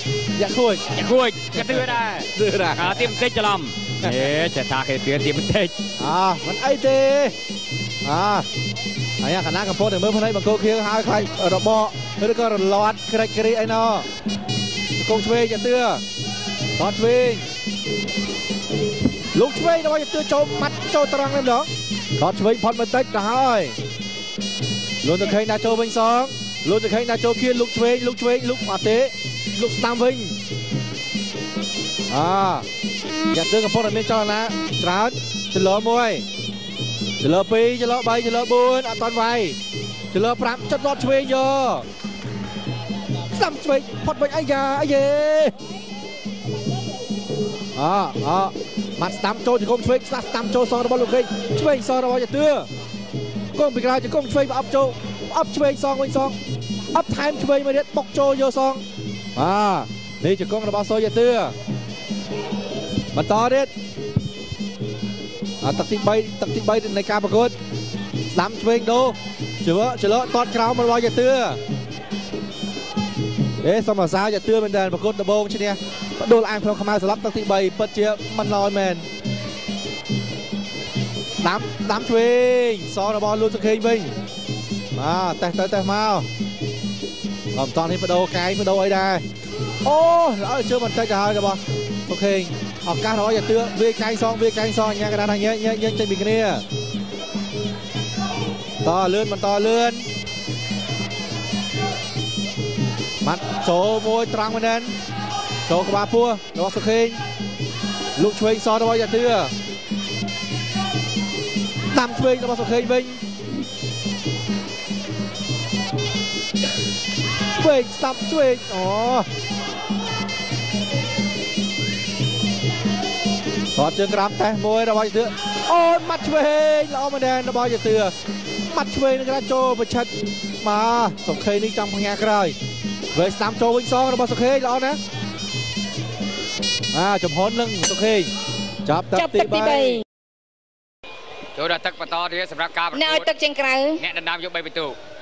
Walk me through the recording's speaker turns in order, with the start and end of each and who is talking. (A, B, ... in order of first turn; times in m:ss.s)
0:00.3-0:00.9 A
0:00.9-0:05.7 B
0:01.5-0:03.1 A
0:06.0-0:07.3 A
0:08.0-0:08.5 A
0:09.2-0:14.1 A
0:15.0-0:16.0 A
0:16.8-0:17.4 A
0:19.3-0:23.8 A
0:25.0-0:30.4 A
0:32.1-0:32.6 A
0:33.3-0:36.3 A
0:37.2-0:39.6 A
0:40.1-0:41.9 A
0:43.3-0:45.5 A
0:47.7-0:52.7 A
0:53.5-0:56.4 A
0:56.9-0:58.8 A
0:59.4-1:01.5 A
1:03.1-1:03.7 A
1:05.6-1:07.5 A
1:08.3-1:11.6 A
1:13.6-1:19.0 A
1:21.4-1:24.1 A
1:24.9-1:26.3 A
1:27.5-1:29.2 A
1:29.8-1:36.6 A
1:38.8-1:40.0 A
1:43.2-1:44.9 A
1:45.6-1:47.2 A
1:48.2-1:49.5 A
1:51.9-1:53.2 A
1:57.5-1:59.3 A
2:03.8-2:08.1 A
2:08.7-2:12.6 A
2:13.1-2:15.0 A
2:16.9-2:18.3 A
2:18.8-2:20.0 A
2:19.1-2:20.0 C
2:21.5-2:23.3 B
2:22.9-2:24.0 C
2:24.0-2:25.0 B